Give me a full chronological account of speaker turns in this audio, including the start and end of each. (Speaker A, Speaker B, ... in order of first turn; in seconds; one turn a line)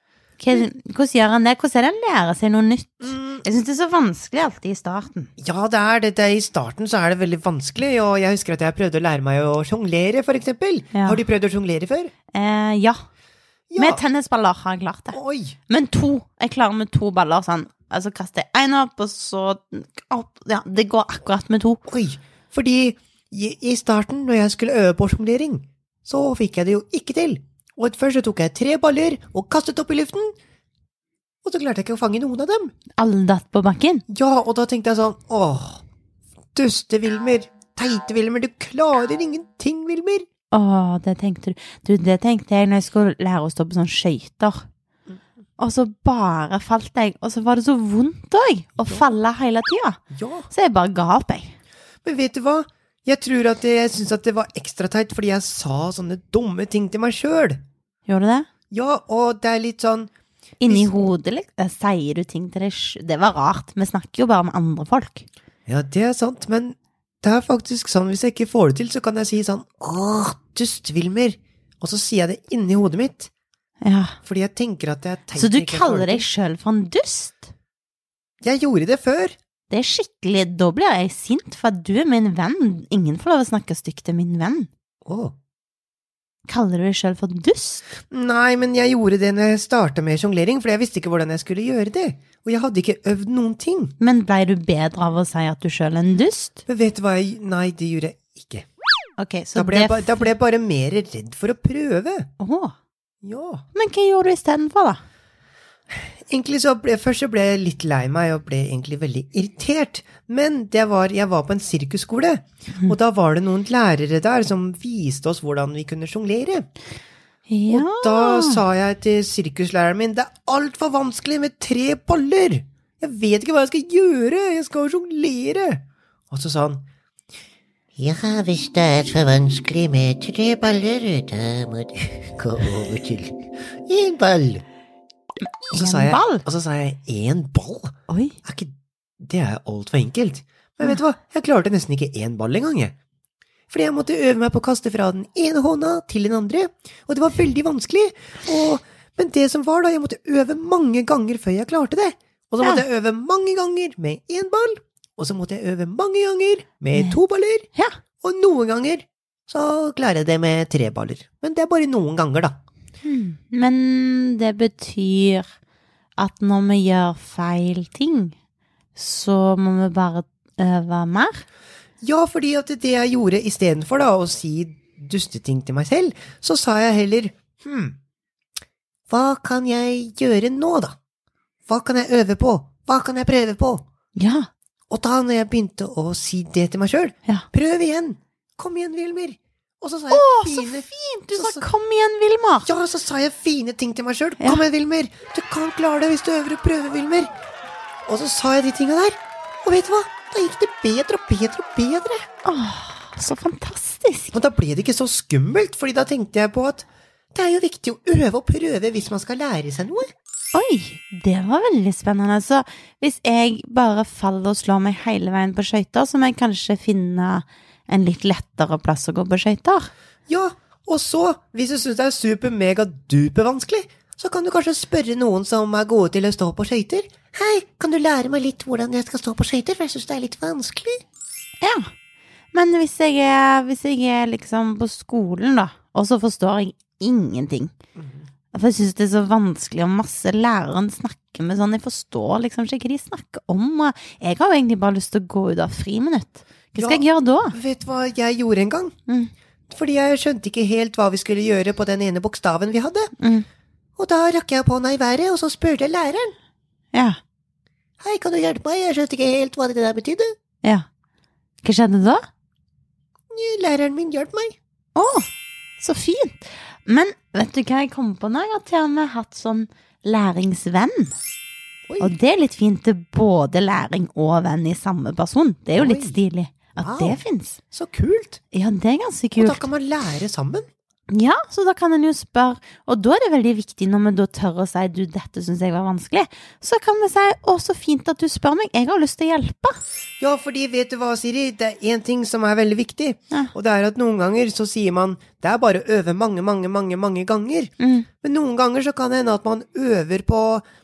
Speaker A: 0.4-5.3
Speaker B: 3.0-3.5
Speaker B: 5.4-12.1
Speaker A: 10.9-11.2
Speaker A: 12.3-13.0
Speaker B: 13.7-14.0
Speaker A: 13.8-21.8
Speaker B: 15.1-15.6
Speaker B: 21.9-30.3
Speaker B: 31.4-32.7
Speaker A: 33.0-34.0
Speaker B: 34.1-35.8
Speaker B: 36.5-40.2
Speaker A: 40.5-44.6
Speaker A: 45.6-51.5
Speaker B: 50.1-50.5
Speaker B: 52.0-57.6
Speaker A: 58.1-58.5
Speaker B: 58.7-60.1
Speaker A: 60.6-65.3
Speaker B: 60.6-60.9
Speaker B: 65.7-73.3
Speaker A: 73.8-74.2
Speaker B: 74.2-76.2
Speaker A: 75.3-77.5
Speaker B: 78.4-79.3
Speaker A: 79.7-84.7
Speaker B: 85.0-85.3
Speaker A: 86.5-87.8
Speaker B: 88.1-93.9
Speaker A: 94.0-96.6
Speaker B: 96.7-98.7
Speaker A: 99.2-100.3
Speaker B: 99.5-102.3
Speaker A: 102.4-102.7
Speaker B: 103.2-103.6
Speaker A: 103.7-105.0
Speaker B: 105.9-116.7
Speaker A: 117.5-118.6
Speaker B: 117.7-126.8
Speaker C: 128.0-132.9
Speaker B: 128.0-131.0
Speaker B: 132.2-133.3
Speaker B: 133.9-134.6
Speaker C: 133.9-134.3
Speaker A: 135.7-136.4
Speaker B: 135.7-142.9
Speaker A: 138.1-138.3
Speaker B: 143.7-157.7
Speaker A: 156.9-157.2
Speaker B: 158.2-162.6
Speaker A: 163.0-165.4
Speaker A: 166.2-168.3
Speaker A: 168.9-171.4
Speaker B: 172.0-177.9
Speaker B: 179.1-181.0
Speaker B: 181.7-183.8
Speaker A: 184.1-184.5
Speaker B: 184.9-191.7
Speaker A: 190.1-192.7
Speaker B: 192.7-197.3
Speaker A: 194.4-194.6
Speaker B: 198.1-202.2
Speaker A: 202.4-204.3
Speaker B: 204.3-210.1
Speaker A: 210.5-219.9
Speaker B: 220.3-231.0
Speaker A: 231.6-231.9
Speaker A: 232.5-237.7
Speaker B: 238.0-238.2
Speaker A: 238.5-247.6
Speaker B: 246.8-248.9
Speaker B: 249.7-253.1
Speaker A: 253.2-253.4
Speaker B: 254.0-256.3
Speaker B: 258.0-260.3
Speaker A: 261.6-262.2
Speaker B: 263.3-264.6
Speaker A: 264.9-265.3
Speaker A: 265.8-271.1
Speaker B: 271.9-272.1
Speaker A: 272.0-277.6
Speaker B: 275.7-276.2
Speaker B: 276.8-277.2
Speaker B: 277.7-278.4
Speaker A: 278.5-279.6
Speaker B: 279.4-280.6
Speaker A: 281.1-289.8
Speaker B: 290.2-300.6
Speaker A: 297.8-298.1